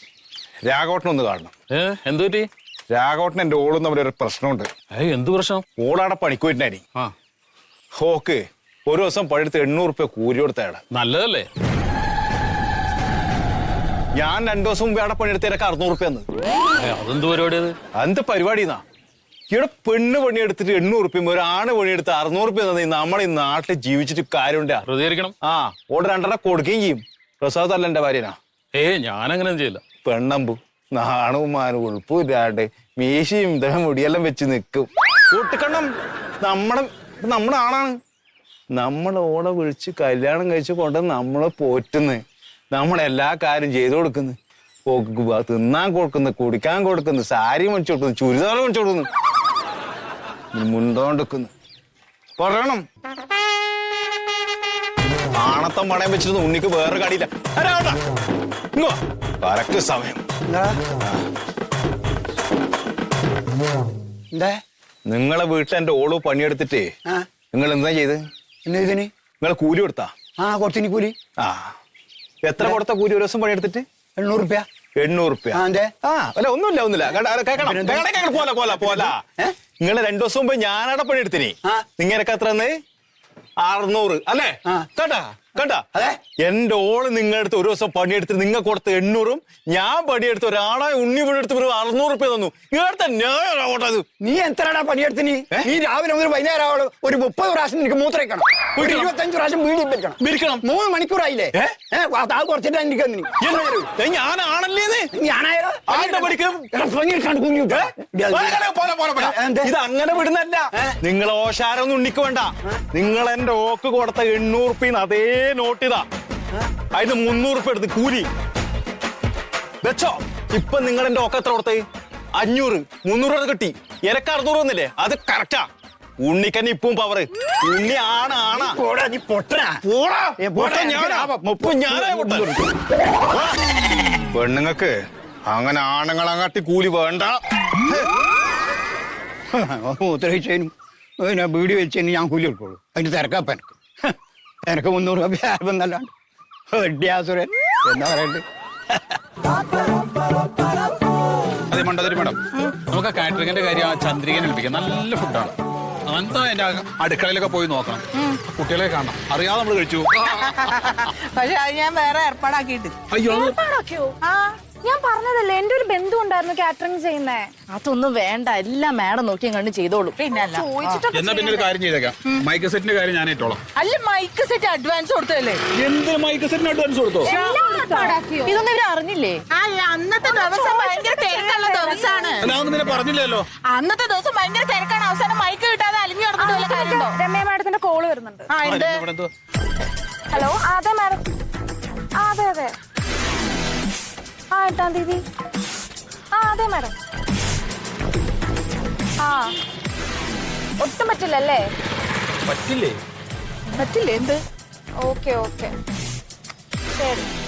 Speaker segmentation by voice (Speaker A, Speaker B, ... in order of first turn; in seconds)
Speaker A: 0.7-1.5, 2.9-4.7, 5.8-6.8, 8.0-10.8, 14.2-16.3, 18.0-18.8, 19.5-24.9, 25.4-28.4, 30.0-35.9, 36.4-38.0, 38.7-49.1, 50.5-51.5, 52.4-52.8, 55.4-58.0, 58.8-60.2, 65.1-66.9, 67.5-68.2, 69.4-70.2, 71.4-71.7, 72.5-73.8, 75.0-79.2, 79.8-82.8, 83.6-85.9, 86.4-94.0, 98.8-99.1, 100.2-100.7, 103.4-105.1, 105.9-106.7, 108.3-116.0, 116.9-118.3, 119.8-125.7, 126.2-128.8, 129.8-132.5, 134.3-134.9, 135.5-137.4
Speaker B: 1.7-2.5, 4.9-5.6, 10.9-11.5, 16.8-17.8, 24.9-25.3, 28.8-29.8, 202.5-202.9
Speaker C: 60.5-60.8, 64.3-64.6, 68.7-69.1, 70.4-71.2, 74.2-74.7, 75.5-75.9, 77.6-79.5, 85.9-86.2, 94.2-103.9, 105.1-108.6, 109.2-109.7, 128.5-129.8, 130.4-132.7, 139.5-144.2, 144.7-146.1, 146.7-148.4
Speaker D: 151.7-155.5, 156.1-160.3, 163.1-163.6, 171.1-173.6, 175.8-177.3, 182.4-183.5, 188.7-189.3, 202.5-203.0
Speaker E: 160.3-162.9, 164.2-164.6, 170.2-170.7, 173.8-175.6, 179.5-182.5, 183.5-187.2, 188.5-189.1, 203.8-204.4
Speaker F: 163.3-164.2, 164.8-167.5, 170.4-171.7, 177.2-178.6, 180.2-182.5, 186.4-188.5, 190.3-191.2, 192.2-192.7, 194.5-195.2, 196.3-196.9, 199.2-199.6, 200.8-201.7, 205.0-205.7, 206.9-207.3
Speaker G: 167.7-170.2, 177.3-177.9, 178.4-179.4